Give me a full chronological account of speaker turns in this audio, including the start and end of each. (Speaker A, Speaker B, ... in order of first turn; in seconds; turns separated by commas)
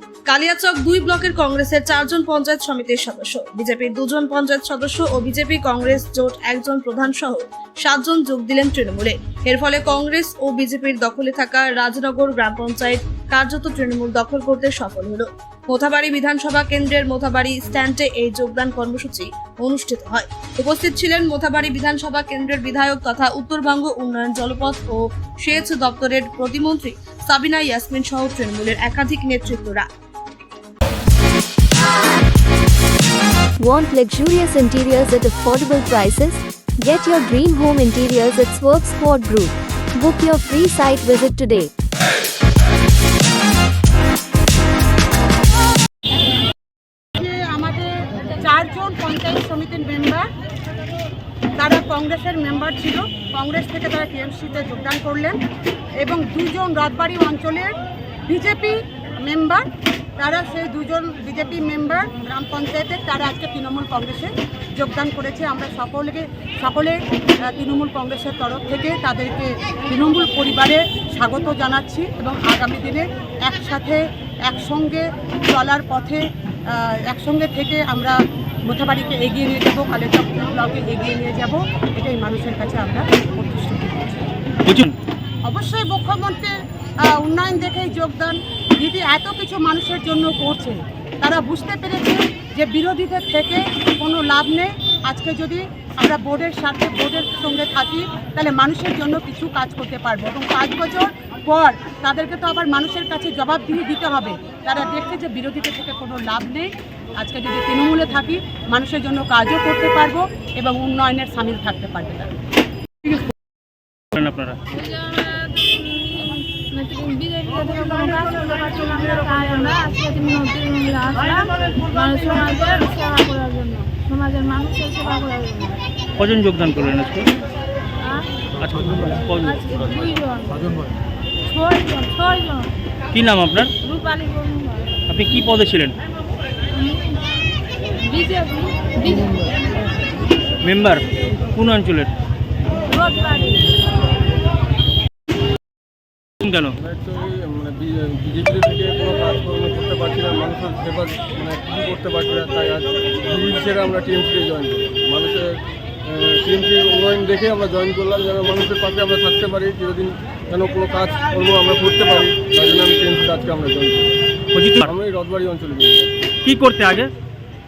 Speaker A: 0.3-29.9, Speaker B: 33.6-41.7, Speaker C: 47.2-50.2, Speaker C: 51.6-55.4, Speaker C: 56.0-57.7, Speaker C: 58.3-59.6, Speaker C: 60.2-67.0, Speaker C: 67.5-84.3, Speaker D: 84.7-84.9, Speaker C: 85.5-86.5, Speaker C: 87.1-112.3, Speaker D: 114.1-114.6, Speaker E: 114.7-125.8, Speaker D: 126.2-127.3, Speaker E: 128.0-128.3, Speaker D: 128.6-129.7, Speaker E: 129.4-130.9, Speaker E: 131.5-132.7, Speaker D: 133.1-133.7, Speaker E: 133.8-135.0, Speaker D: 135.1-135.9, Speaker E: 136.7-137.2, Speaker E: 138.0-139.5, Speaker D: 140.6-142.1, Speaker E: 142.9-143.8, Speaker D: 146.4-146.7, Speaker F: 146.8-164.1, Speaker D: 164.5-164.9, Speaker F: 164.8-166.1, Speaker D: 166.4-167.1